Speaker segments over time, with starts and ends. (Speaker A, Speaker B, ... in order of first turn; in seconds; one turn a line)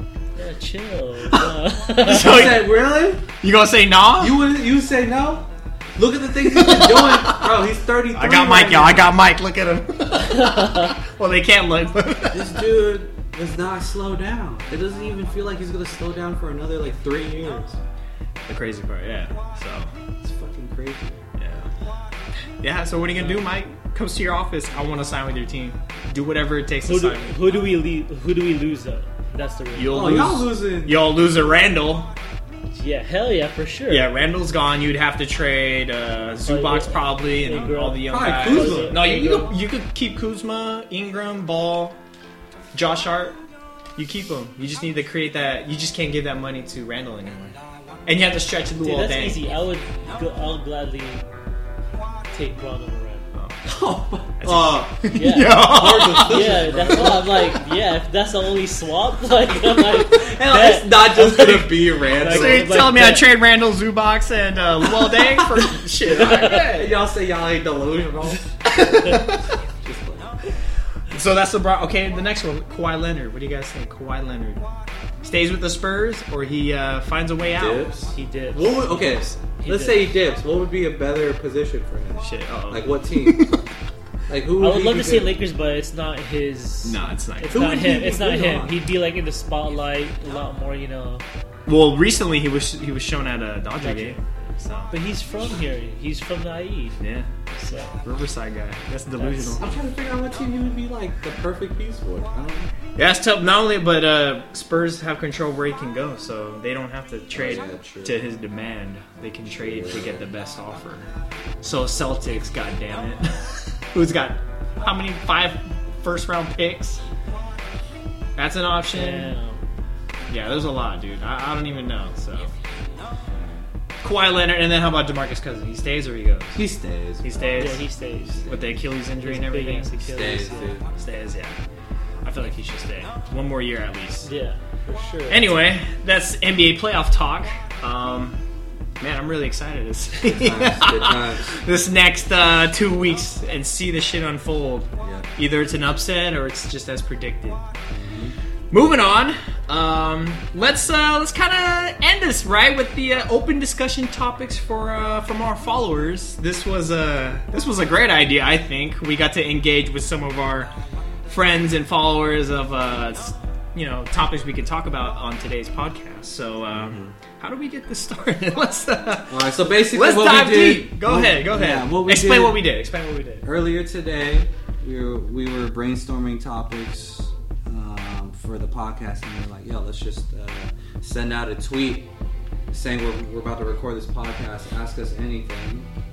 Speaker A: 0.3-2.6
Speaker B: 1.3-2.7
Speaker C: 2.1-3.2
Speaker B: 3.4-4.4
Speaker C: 4.2-9.1
Speaker B: 6.5-7.5
Speaker B: 8.1-12.6
Speaker C: 12.3-17.8
Speaker B: 18.5-19.9
Speaker C: 20.2-21.2
Speaker B: 21.4-21.7
Speaker B: 22.6-27.3
Speaker A: 23.1-23.4
Speaker A: 26.9-30.3
Speaker B: 29.8-32.1
Speaker C: 29.9-31.4
Speaker A: 32.8-34.1
Speaker B: 33.9-42.0
Speaker A: 36.5-39.6
Speaker C: 38.1-39.0
Speaker B: 42.7-43.4
Speaker B: 44.0-49.4
Speaker A: 48.8-51.2
Speaker A: 52.3-53.3
Speaker B: 53.4-53.6
Speaker C: 53.6-57.6
Speaker B: 54.4-56.6
Speaker A: 55.1-63.3
Speaker C: 59.7-62.9
Speaker B: 62.2-66.9
Speaker C: 66.1-68.4
Speaker A: 66.2-66.6
Speaker B: 68.7-69.5
Speaker C: 69.8-70.4
Speaker B: 71.1-74.6
Speaker B: 75.2-77.9
Speaker C: 77.4-83.6
Speaker A: 78.1-79.0
Speaker A: 79.5-80.1
Speaker B: 82.2-83.7
Speaker C: 84.3-85.3
Speaker A: 84.6-91.2
Speaker B: 86.8-87.7
Speaker C: 87.5-88.8
Speaker B: 91.7-94.9
Speaker A: 93.8-94.2
Speaker A: 94.9-97.0
Speaker B: 97.0-97.3
Speaker A: 97.5-98.0
Speaker B: 97.8-99.6
Speaker A: 99.2-99.6
Speaker C: 99.6-102.7
Speaker B: 103.0-111.1
Speaker C: 107.3-108.2
Speaker C: 109.5-110.2
Speaker B: 111.6-117.0
Speaker B: 118.4-119.3
Speaker A: 118.9-119.6
Speaker B: 120.3-122.5
Speaker C: 123.3-123.7
Speaker B: 124.0-126.6
Speaker C: 126.5-127.5
Speaker B: 127.2-127.8
Speaker A: 127.5-128.5
Speaker B: 128.4-129.9
Speaker C: 128.4-128.7
Speaker A: 129.2-130.8
Speaker C: 130.1-130.9
Speaker B: 130.9-131.6
Speaker B: 132.2-134.3
Speaker A: 134.2-135.4
Speaker B: 135.3-138.4
Speaker B: 139.0-147.6
Speaker C: 140.2-141.6
Speaker C: 145.0-145.3
Speaker C: 147.9-148.3
Speaker B: 148.7-160.7
Speaker B: 161.3-173.5
Speaker C: 166.8-167.1
Speaker C: 169.3-172.7
Speaker C: 173.4-182.1
Speaker C: 182.7-185.9